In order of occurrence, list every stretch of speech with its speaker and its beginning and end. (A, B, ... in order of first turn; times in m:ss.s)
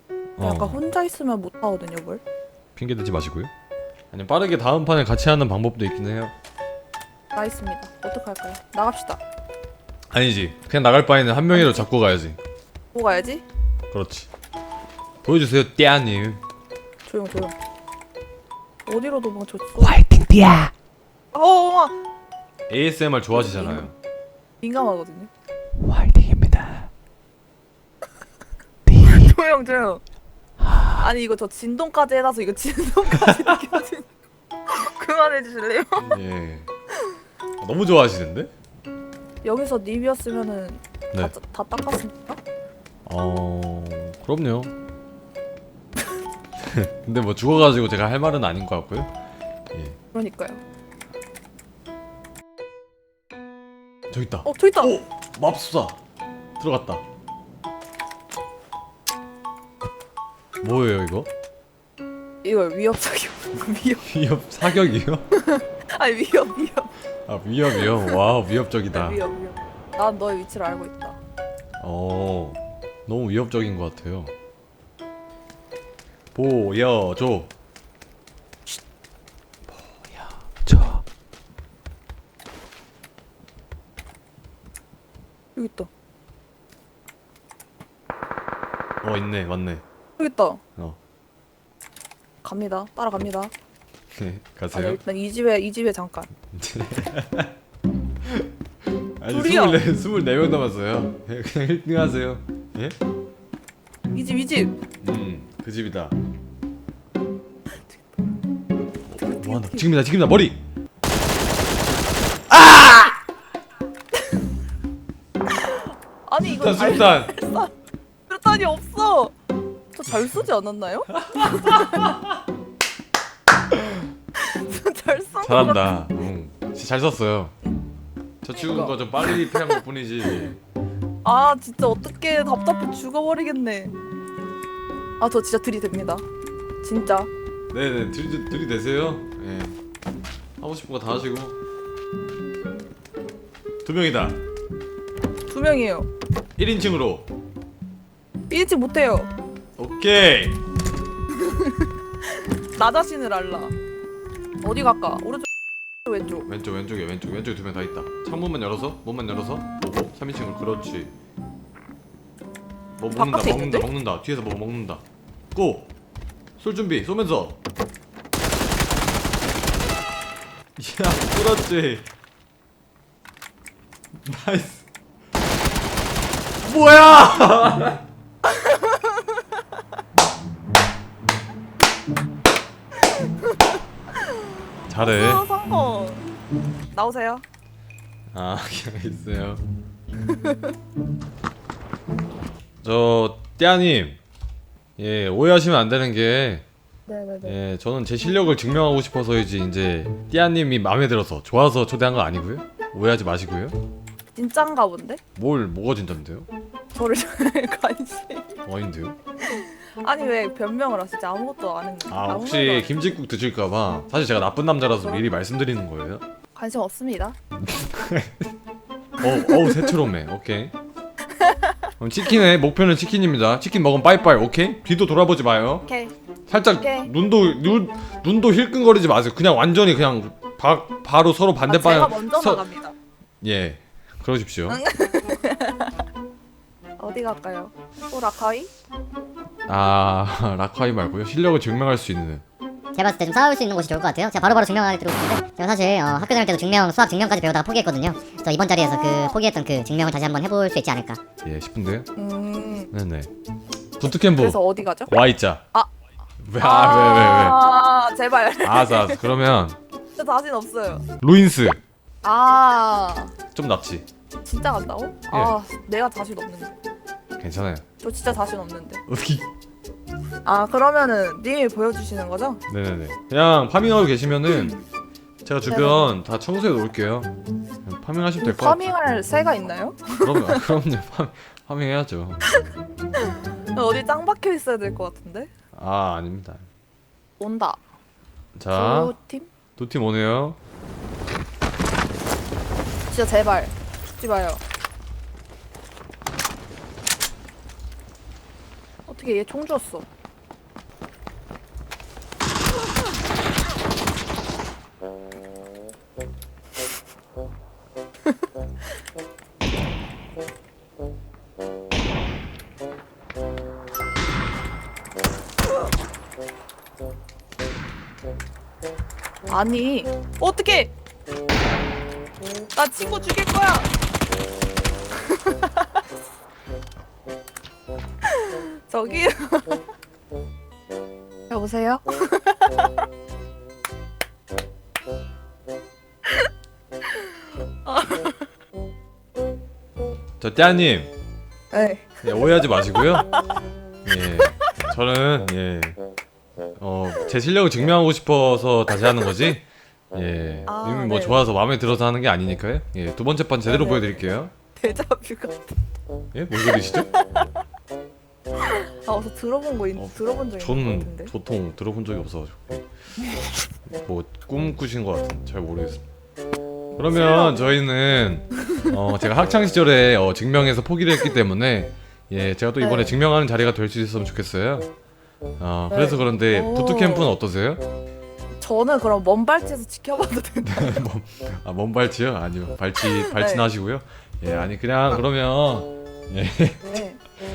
0:00.4-0:00.8 A
0:00.4-0:02.2 B
0:02.8-0:03.5 A
0:04.1-0:06.3 A
0:07.3-0:09.2 B
0:10.1-0:12.4 A
0:11.6-0:11.8 B
0:12.9-0:13.4 B
0:13.9-0:14.3 A
0:15.2-0:16.4 A
0:17.1-0:17.6 B
0:18.9-0:20.0 B
0:19.8-0:20.7 C
0:21.3-0:22.0 B
0:22.7-0:24.0 A
0:23.5-0:23.8 B
0:24.6-0:25.3 B
0:25.8-0:26.9 C
0:29.0-0:30.0 B
0:31.0-0:34.1 B
0:34.7-0:36.2 B
0:36.0-0:36.7 A
0:37.6-0:38.5 A
0:39.4-0:42.4 B
0:43.1-0:44.7 A
0:46.6-0:49.1 A
0:50.1-0:50.6 B
0:54.1-0:56.0 A
0:54.5-0:55.0 B
0:56.6-0:57.0 A
1:00.6-1:01.3 A
1:02.4-1:04.1 B
1:04.0-1:05.3 A
1:05.3-1:06.9 B
1:07.3-1:09.2 A
1:07.8-1:08.2 B
1:08.9-1:11.2 B
1:11.8-1:14.3 A
1:16.3-1:17.5 A
1:19.7-1:20.3 A
1:20.6-1:21.0 C
1:25.6-1:25.9 B
1:29.0-1:29.8 A
1:30.2-1:30.6 B
1:32.4-1:33.5 B
1:34.1-1:35.0 A
1:34.7-1:36.3 B
1:36.5-1:37.5 A
1:39.2-1:43.0 A
1:39.3-1:39.8 B
1:44.1-1:44.8 B
1:45.0-1:46.2 A
1:49.1-1:50.6 A
1:49.2-1:49.9 B
1:52.5-1:53.2 A
1:55.5-1:57.7 B
1:56.4-1:57.3 A
1:58.3-1:59.3 B
1:59.9-2:02.1 B
2:01.2-2:02.2 A
2:04.4-2:06.0 B
2:05.4-2:07.5 A
2:08.4-2:10.6 A
2:08.6-2:09.8 B
2:11.2-2:14.0 B
2:15.2-2:16.2 B
2:16.8-2:17.3 B
2:17.7-2:19.8 A
2:20.6-2:21.6 A
2:23.8-2:24.4 A
2:25.5-2:26.1 B
2:26.6-2:27.3 A
2:28.5-2:29.3 B
2:29.8-2:30.6 A
2:31.4-2:31.7 B
2:32.4-2:33.7 B
2:34.6-2:35.5 B
2:36.1-2:36.5 B
2:36.5-2:41.1 A
2:43.0-2:45.0 A
2:43.1-2:43.9 B
2:45.5-2:45.9 A
2:46.6-2:47.6 A
2:50.8-2:52.1 A
2:54.2-2:54.8 A
2:56.6-2:58.0 A
2:58.4-2:59.3 B
3:03.1-3:03.5 B
3:04.9-3:05.4 A
3:05.0-3:06.3 B
3:06.9-3:07.4 B
3:08.3-3:09.6 A
3:10.3-3:10.7 B
3:12.8-3:14.2 A
3:15.0-3:16.6 A
3:17.1-3:17.5 B
3:17.4-3:23.8 A
3:24.3-3:25.2 B
3:25.4-3:26.5 A
3:26.9-3:28.6 B
3:28.6-3:29.2 A
3:29.4-3:33.2 B
3:32.1-3:36.2 A
3:36.6-3:37.4 B
3:37.6-3:38.5 A
3:39.2-3:40.7 A
3:41.4-3:41.7 B
3:42.0-3:45.9 A
3:45.9-3:46.1 B
3:46.5-3:52.6 A
3:46.7-3:47.1 B
3:51.7-3:53.0 B
3:53.4-3:54.8 A
3:54.7-3:55.9 B
3:57.0-3:58.7 B
3:59.7-4:02.4 A
4:03.0-4:11.2 D
4:08.8-4:09.4 B
4:11.4-4:12.1 A
4:12.2-4:12.9 B
4:12.9-4:13.3 A
4:14.0-4:15.6 A
4:14.2-4:15.1 B
4:16.4-4:17.7 A
4:16.6-4:19.2 B
4:18.6-4:19.8 A
4:20.2-4:21.1 B
4:21.2-4:21.8 A
4:22.2-4:23.3 B
4:23.5-4:24.1 A
4:24.4-4:26.8 B
4:27.4-4:27.8 A
4:28.0-4:29.0 B
4:29.1-4:29.5 A
4:30.4-4:32.6 B
4:32.7-4:34.8 A
4:34.5-4:34.8 B
4:35.4-4:37.3 A
4:35.7-4:36.1 B
4:37.8-4:38.9 A
4:38.4-4:40.6 B
4:40.2-4:42.7 A
4:43.2-4:45.5 B
4:45.8-4:46.7 A
4:47.4-4:47.8 B
4:48.6-4:49.1 A
4:48.7-4:49.5 B
4:49.8-4:50.6 A
4:53.1-4:54.6 B
4:59.1-5:00.0 B
5:19.5-5:20.9 B
5:22.8-5:23.9 B
5:25.4-5:25.7 B
5:28.2-5:29.8 B
5:31.5-5:33.0 B
5:37.8-5:38.5 B
5:40.4-5:41.1 A
5:41.7-5:42.2 B
5:42.2-5:43.3 A
5:44.0-5:46.0 A
5:46.8-5:54.5 A
5:50.7-5:51.5 B
5:53.6-5:54.1 B
5:54.8-5:55.7 B
5:56.3-5:57.1 A
5:58.6-6:01.3 B
6:00.0-6:02.9 A
6:03.9-6:06.0 A
6:07.0-6:14.9 A
6:07.0-6:07.7 B
6:12.8-6:13.2 B
6:15.6-6:17.8 A
6:15.9-6:17.3 B
6:18.6-6:21.0 B
6:20.6-6:27.0 A
6:23.0-6:23.7 B
6:26.9-6:27.2 B